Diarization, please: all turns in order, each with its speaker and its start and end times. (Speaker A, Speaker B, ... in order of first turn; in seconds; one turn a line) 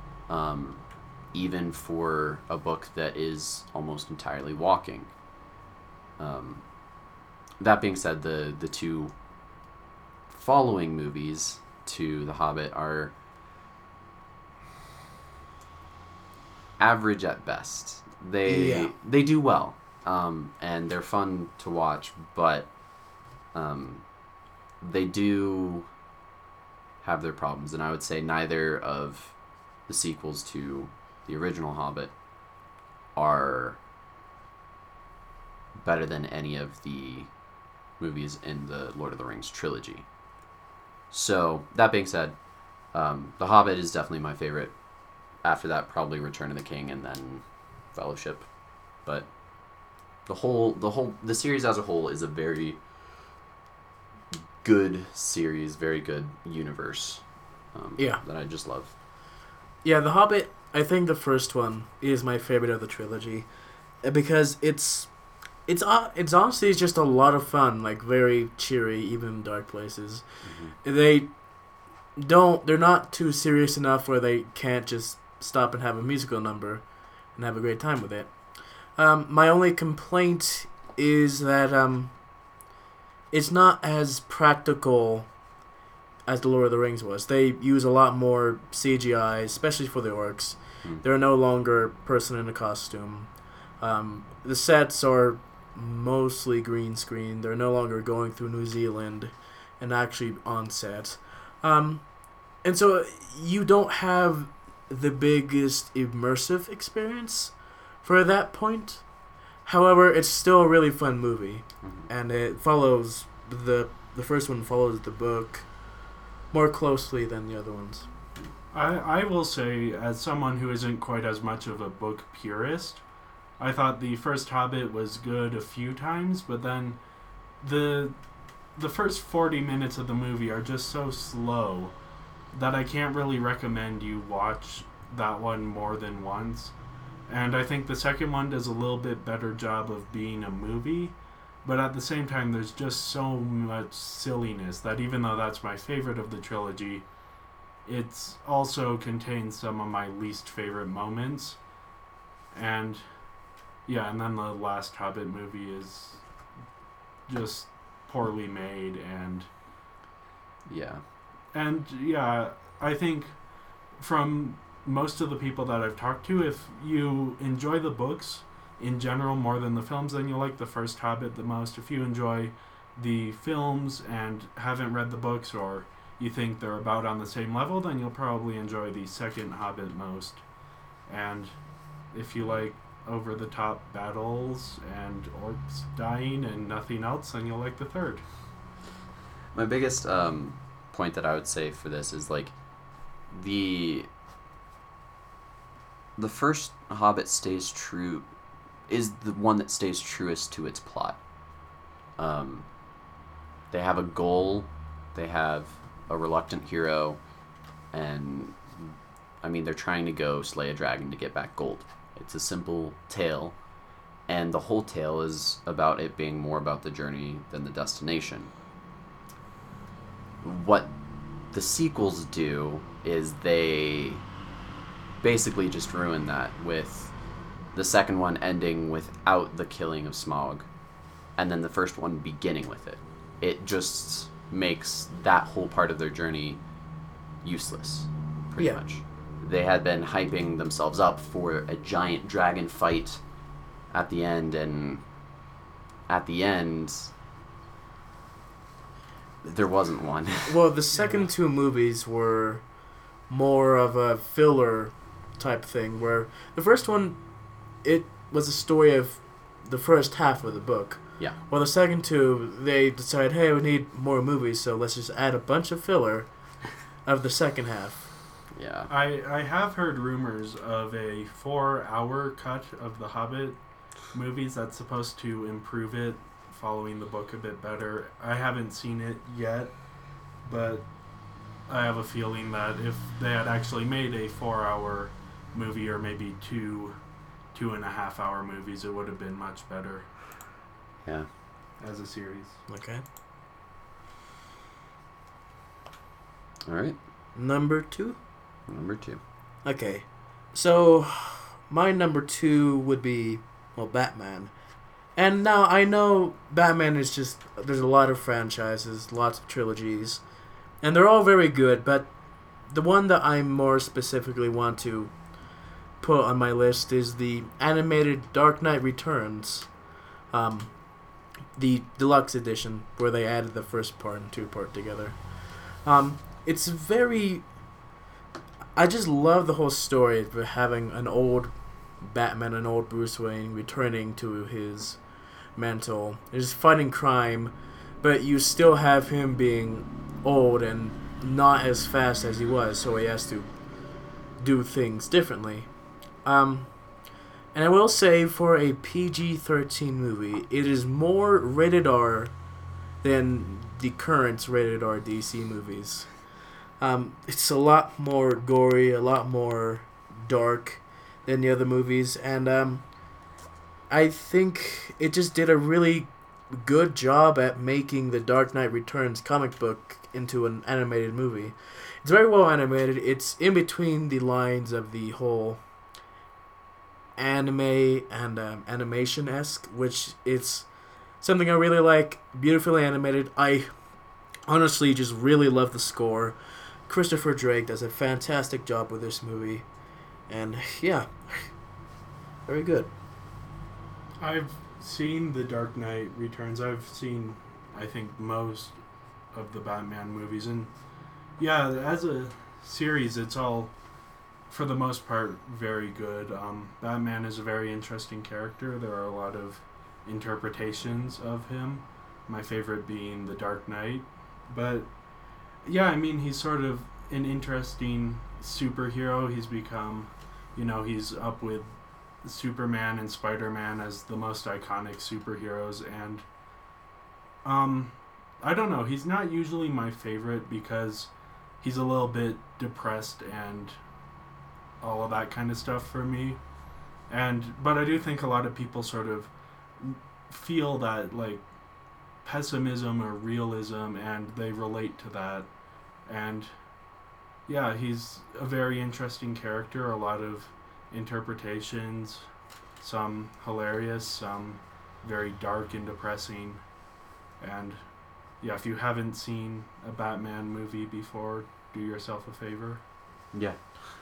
Speaker A: 0.3-5.1
Speaker A: 6.2-6.8
Speaker A: 7.6-9.2
Speaker A: 10.3-13.2
Speaker A: 16.8-22.8
Speaker B: 18.4-18.9
Speaker A: 23.4-24.2
Speaker A: 24.8-25.9
Speaker A: 27.0-32.2
Speaker A: 33.1-33.8
Speaker A: 35.8-37.4
Speaker A: 37.9-40.1
Speaker A: 41.1-52.8
Speaker A: 54.3-58.9
Speaker B: 58.0-58.2
Speaker B: 59.8-82.6
Speaker A: 70.4-70.8
Speaker B: 83.3-85.5
Speaker B: 86.2-118.1
Speaker A: 111.8-112.1
Speaker C: 118.7-123.1
Speaker C: 123.6-127.0
Speaker C: 127.6-128.2
Speaker C: 128.7-131.9
Speaker C: 132.5-136.8
Speaker C: 137.3-147.1
Speaker C: 147.8-151.6
Speaker C: 152.5-156.3
Speaker C: 157.3-159.5
Speaker A: 160.7-161.0
Speaker C: 161.5-180.5
Speaker C: 181.0-181.6
Speaker C: 182.1-188.2
Speaker A: 189.5-194.1
Speaker A: 196.2-198.3
Speaker A: 198.9-201.3
Speaker A: 202.2-202.7
Speaker A: 203.7-207.2
Speaker A: 207.9-213.6
Speaker A: 214.3-218.5
Speaker A: 220.4-220.9
Speaker A: 221.5-224.2
Speaker A: 225.2-230.7
Speaker A: 231.3-236.6
Speaker A: 237.4-243.2
Speaker A: 243.9-245.1
Speaker A: 246.1-247.1
Speaker A: 249.4-250.6
Speaker B: 250.4-268.1
Speaker C: 250.9-251.3
Speaker A: 268.5-268.9
Speaker C: 268.9-280.9
Speaker C: 281.7-287.0
Speaker C: 287.5-290.1
Speaker C: 291.8-292.6
Speaker B: 292.7-293.0
Speaker A: 296.7-297.0
Speaker B: 297.4-298.2
Speaker A: 298.7-299.2
Speaker B: 299.6-310.3
Speaker B: 310.8-327.8
Speaker B: 328.8-352.4
Speaker B: 353.0-363.3
Speaker B: 363.9-375.7
Speaker B: 377.2-389.7
Speaker B: 390.2-391.7
Speaker B: 392.5-392.9
Speaker C: 394.2-398.8
Speaker C: 399.3-400.7
Speaker C: 401.4-403.8
Speaker C: 404.5-415.0
Speaker C: 415.6-426.3
Speaker C: 427.4-433.8
Speaker C: 434.8-436.4
Speaker C: 437.1-441.5
Speaker C: 442.2-445.5
Speaker C: 446.1-446.6
Speaker C: 447.5-452.3
Speaker C: 452.8-456.7
Speaker C: 457.4-462.8
Speaker A: 463.3-463.8